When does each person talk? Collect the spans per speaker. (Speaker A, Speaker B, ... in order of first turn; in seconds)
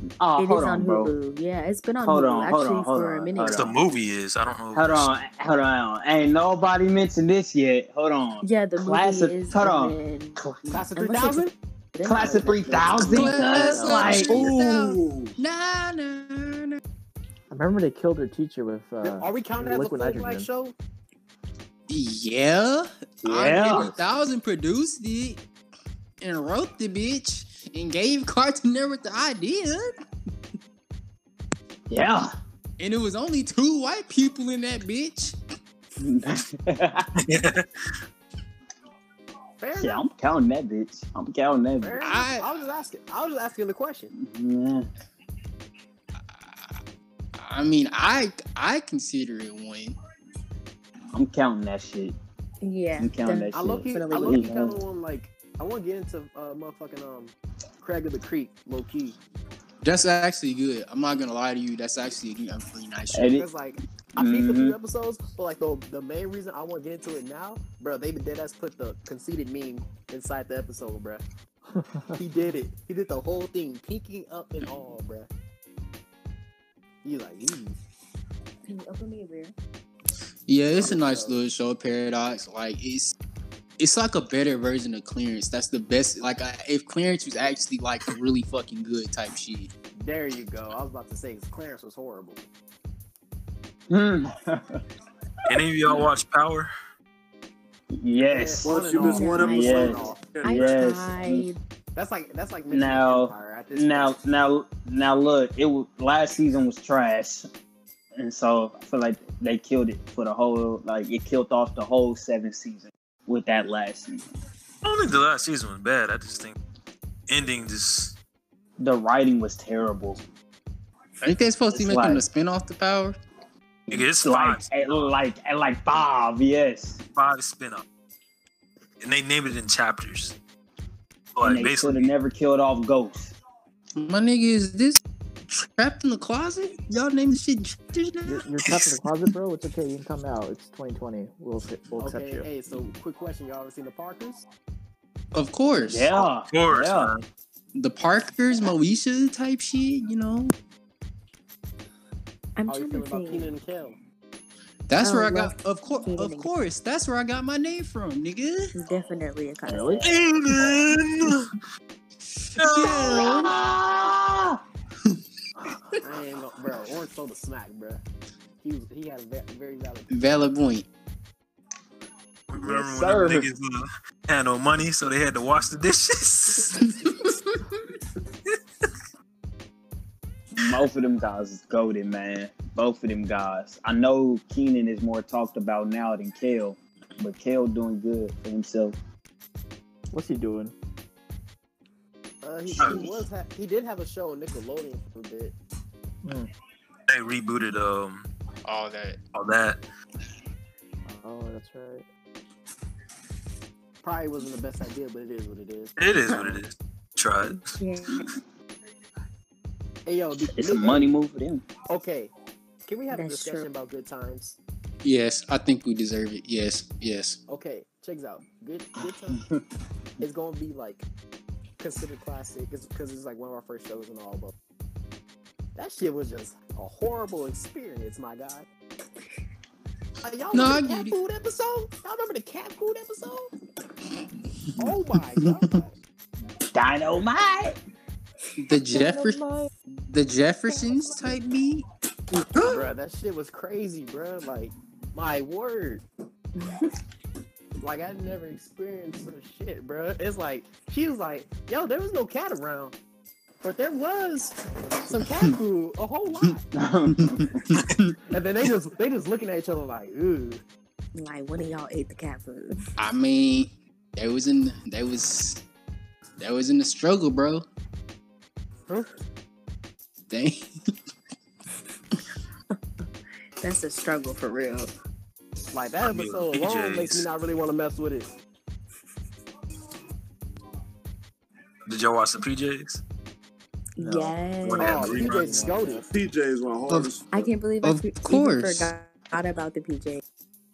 Speaker A: 0.2-1.1, 2.0-3.8, 4.7-10.6, 12.0-15.2, 23.2-23.9, 31.9-32.3, 36.0-37.1, 39.8-42.0, 44.1-44.9, 51.1-52.1, 53.0-54.8, 63.1-63.5, 64.2-64.8, 93.9-94.8, 97.9-101.5, 102.7-107.5, 108.2-114.2, 118.8-120.2, 121.7-122.3, 123.9-127.0, 131.4-133.3, 145.9-147.1, 162.8-164.6, 172.6-173.5, 180.6-188.9, 210.5-211.7, 219.3-219.6, 236.7-237.8, 256.7-257.9
Speaker B: 0.4-3.7, 8.4-14.5, 52.6-54.5, 78.7-79.5, 98.9-101.6, 152.6-153.5, 155.0-156.5, 158.7-160.1, 162.9-163.4, 207.5-208.2, 213.1-213.7, 246.6-246.8, 261.1-262.8, 273.6-274.9, 284.0-285.2, 287.3-290.2
Speaker C: 3.5-5.1, 37.2-37.6, 95.5-96.7, 114.8-116.5, 117.3-118.2, 123.9-125.1, 127.1-127.8, 129.0-130.4, 131.3-132.1, 146.5-147.2, 160.0-161.5, 162.6-163.5, 172.5-176.9, 192.8-193.1, 197.1-198.3, 199.3-199.8, 206.0-207.7, 276.0-277.3, 281.9-283.0, 284.6-285.7
Speaker D: 10.7-11.5, 19.0-20.8, 39.6-40.0, 41.8-44.1, 53.5-59.2, 63.3-71.2, 72.2-75.3, 77.0-77.8, 80.7-81.4, 90.0-92.4, 98.3-100.2, 101.9-104.1, 142.0-144.4, 152.7-154.0, 166.0-168.0, 168.6-170.1, 192.4-195.6, 204.0-206.6, 210.1-211.1, 211.9-212.3, 212.8-214.6, 217.5-219.4, 220.2-221.1, 221.8-224.5, 225.8-228.7, 230.2-233.5, 234.8-235.9, 242.6-246.0, 247.8-252.9, 253.6-256.6, 258.3-260.6, 275.7-278.3, 284.8-286.1
Speaker E: 13.0-16.8, 21.9-25.4, 26.2-29.9, 32.8-35.4, 42.0-42.5, 47.4-50.0, 59.8-63.3, 80.5-83.2, 83.8-89.7, 121.2-123.2, 133.9-139.0, 145.3-146.1, 147.8-150.5, 154.9-158.7, 162.7-163.3, 170.1-170.9, 198.6-199.2, 215.0-217.4, 230.5-231.2, 238.6-239.4, 240.0-241.8, 263.0-265.6, 266.4-267.6, 270.3-270.6, 287.8-288.9
Speaker F: 17.5-20.5, 138.3-142.5, 159.7-160.2, 190.1-190.7, 201.1-202.1, 284.0-284.3, 285.0-286.0
Speaker G: 98.6-100.9, 286.0-287.5